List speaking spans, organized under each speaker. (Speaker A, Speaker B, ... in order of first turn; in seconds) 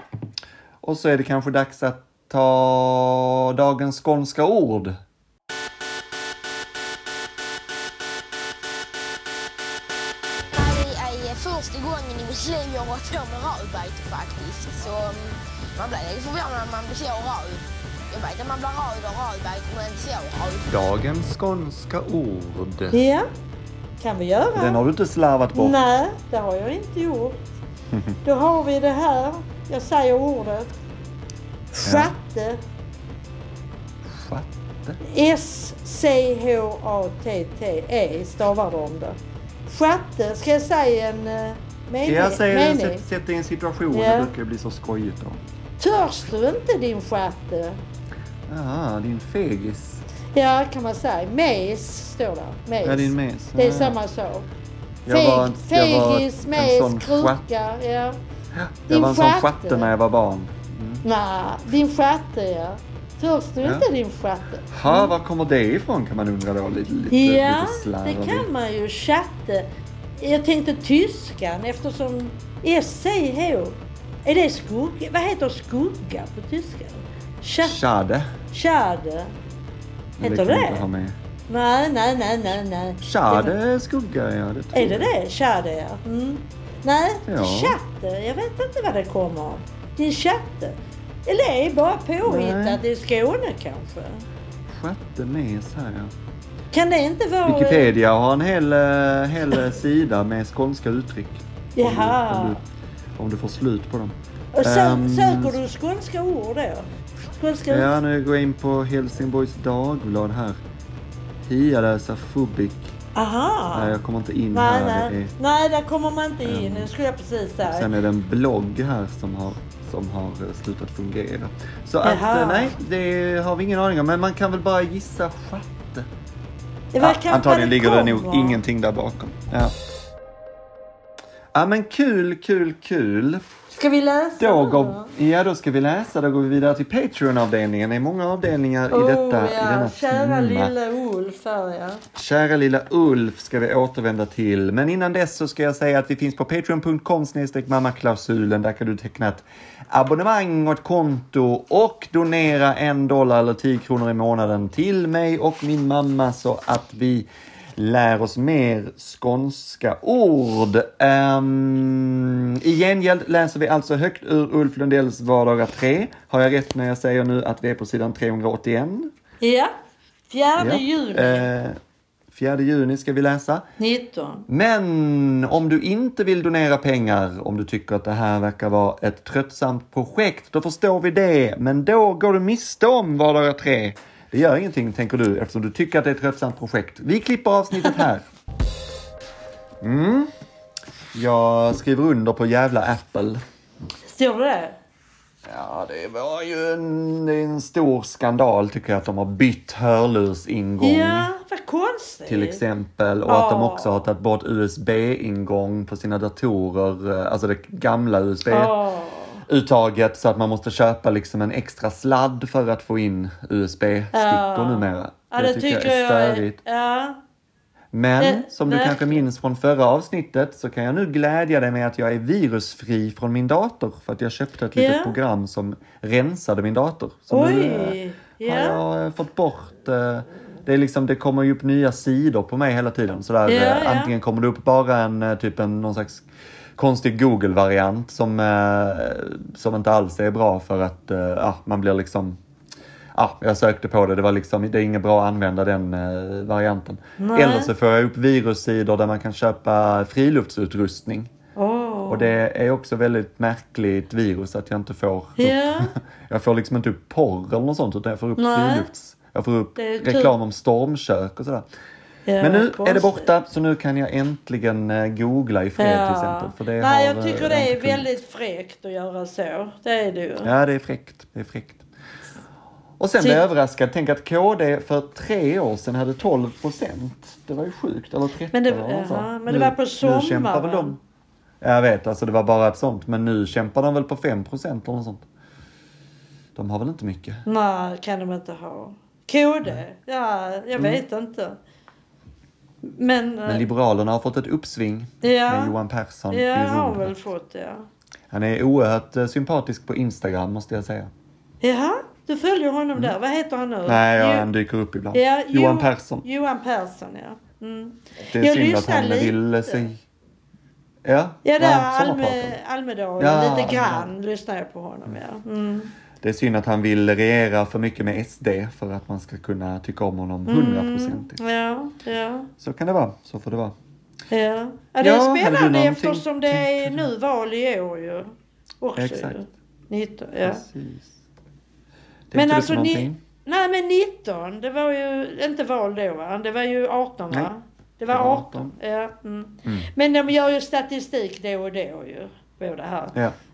Speaker A: 0.8-5.0, 20.7-23.1, 24.6-25.8, 31.8-32.1, 34.1-35.0, 42.0-45.4, 48.5-50.0, 52.8-54.0, 55.0-57.4, 58.5-61.0, 64.7-68.5, 77.6-78.3, 80.2-81.2, 83.0-85.1, 87.3-87.8, 92.2-92.8, 94.7-96.1, 97.5-102.6, 103.2-105.6, 107.7-110.6, 111.5-112.9, 113.7-115.3, 116.4-116.9, 117.7-126.1, 127.0-129.8, 131.5-133.4, 134.4-140.7, 142.1-169.1, 170.6-171.8, 172.3-173.7, 174.5-188.2, 189.8-190.3, 191.1-193.4, 195.5-201.3, 202.3-208.7, 209.5-216.6, 217.9-242.4, 243.2-251.3, 252.1-261.7, 262.4-268.1, 270.4-271.8, 273.0-281.0, 281.6-285.3, 286.6-287.4, 290.8-291.0, 293.5-297.2, 298.3-301.1, 303.9-306.2, 308.2-310.0, 311.1-312.6, 313.2-314.1, 316.2-321.4, 322.6-323.8, 325.0-327.1, 329.0-329.4, 330.4-331.2, 332.3-333.2, 338.1-338.8
Speaker B: 10.5-20.7
Speaker C: 22.9-23.3, 24.0-24.8, 25.6-27.4, 28.2-30.7, 31.7-32.6, 35.0-43.0, 43.9-44.3, 45.8-47.8, 50.3-54.5, 55.1-58.2, 58.9-59.9, 61.0-65.1, 67.1-77.8, 78.5-79.3, 80.2-80.8, 81.5-83.5, 84.7-94.2, 96.7-97.9, 101.8-102.6, 104.5-107.9, 113.2-114.0, 114.5-117.9, 122.0-122.7, 126.9-128.6, 133.7-135.1, 138.9-142.0, 169.4-169.7, 170.3-171.5, 173.8-174.4, 194.1-194.8, 200.8-202.6, 203.3-204.1, 208.5-209.4, 214.1-217.2, 218.2-219.2, 224.8-225.2, 227.3-228.8, 233.5-234.1, 247.2-247.7, 251.6-252.3, 255.4-255.9, 258.4-258.9, 259.8-260.3, 262.3-263.3, 265.8-270.5, 273.2-273.4, 278.5-281.0, 287.5-291.6, 292.8-293.7, 295.2-295.8, 296.3-297.9, 301.6-304.5, 305.1-309.8, 311.4-315.9, 320.5-322.5, 324.3-330.6, 332.3-343.2